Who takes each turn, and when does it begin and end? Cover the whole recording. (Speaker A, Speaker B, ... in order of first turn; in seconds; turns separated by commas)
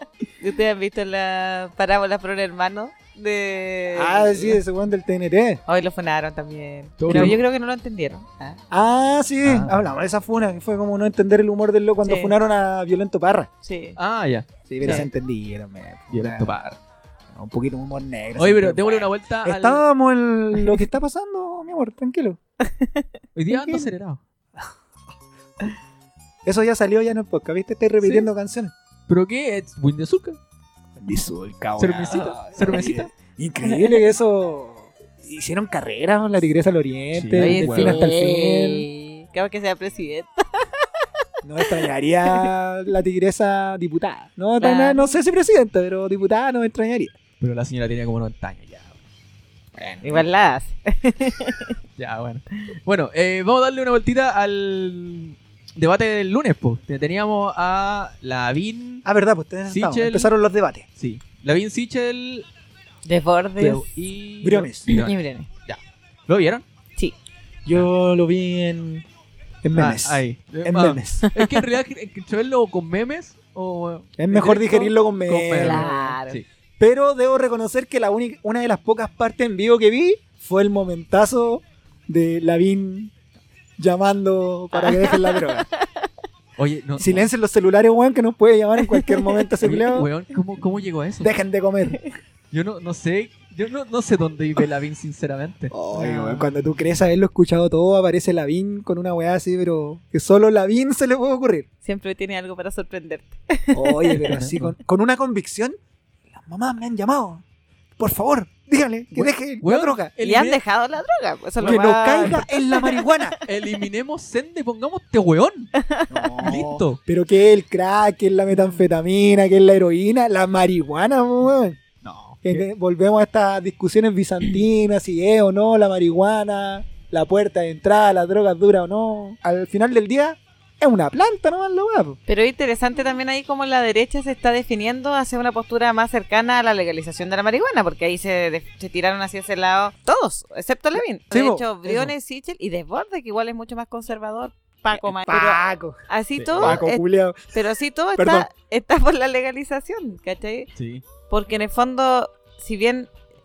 Speaker A: 0.4-4.6, Speaker B: 4.0-5.6, Speaker A: 5.7-8.6, Speaker C: 7.0-7.4, Speaker B: 7.1-7.4, Speaker B: 8.7-13.5, Speaker C: 9.4-9.8, Speaker A: 12.0-12.3, Speaker A: 13.6-14.0, Speaker C: 14.0-15.1, Speaker B: 14.7-16.5, Speaker C: 16.1-16.8, Speaker B: 17.3-22.4, Speaker C: 18.4-19.8, Speaker A: 22.6-23.1, Speaker C: 23.4-24.2, Speaker B: 23.5-23.9, Speaker B: 26.4-28.7, Speaker C: 28.0-28.3, Speaker C: 29.1-30.4, Speaker B: 31.0-38.9, Speaker C: 31.8-33.1, Speaker A: 33.6-34.0, Speaker C: 37.1-38.0, Speaker A: 37.4-41.1, Speaker B: 41.4-47.1, Speaker A: 41.6-42.5, Speaker A: 44.6-45.1, Speaker C: 47.4-48.9, Speaker B: 49.8-50.2, Speaker A: 50.0-51.8, Speaker C: 52.0-59.0, Speaker B: 59.0-60.9, Speaker C: 59.7-60.3, Speaker C: 61.0-62.5, Speaker A: 63.0-63.9, Speaker C: 63.6-65.2, Speaker B: 64.4-64.9, Speaker A: 64.9-65.5, Speaker C: 65.7-66.6, Speaker B: 67.7-69.0, Speaker B: 69.6-71.3, Speaker C: 69.8-76.5, Speaker A: 71.3-71.6, Speaker B: 74.2-75.9, Speaker A: 75.6-76.4, Speaker B: 76.8-83.1, Speaker B: 83.8-85.7, Speaker A: 84.7-86.1, Speaker C: 86.6-87.3, Speaker B: 87.0-90.1, Speaker A: 88.8-89.5, Speaker C: 89.6-91.3, Speaker B: 91.2-92.0, Speaker C: 92.5-95.8, Speaker B: 95.7-101.7, Speaker A: 95.9-96.4, Speaker A: 101.8-104.2, Speaker B: 103.7-105.8, Speaker C: 104.2-104.8, Speaker B: 106.3-107.4, Speaker B: 108.0-110.1, Speaker C: 109.1-110.6, Speaker A: 110.2-113.4, Speaker C: 111.6-112.5, Speaker B: 111.6-113.4, Speaker C: 113.5-115.7, Speaker A: 115.8-116.3, Speaker B: 116.1-121.8, Speaker C: 116.4-117.0, Speaker C: 122.0-122.7, Speaker B: 122.5-132.2, Speaker A: 132.3-147.0, Speaker B: 141.0-142.0, Speaker B: 144.9-146.0, Speaker C: 146.4-146.8, Speaker B: 146.6-147.5, Speaker A: 147.5-150.7, Speaker B: 148.2-148.5, Speaker C: 150.8-151.0, Speaker A: 151.3-153.1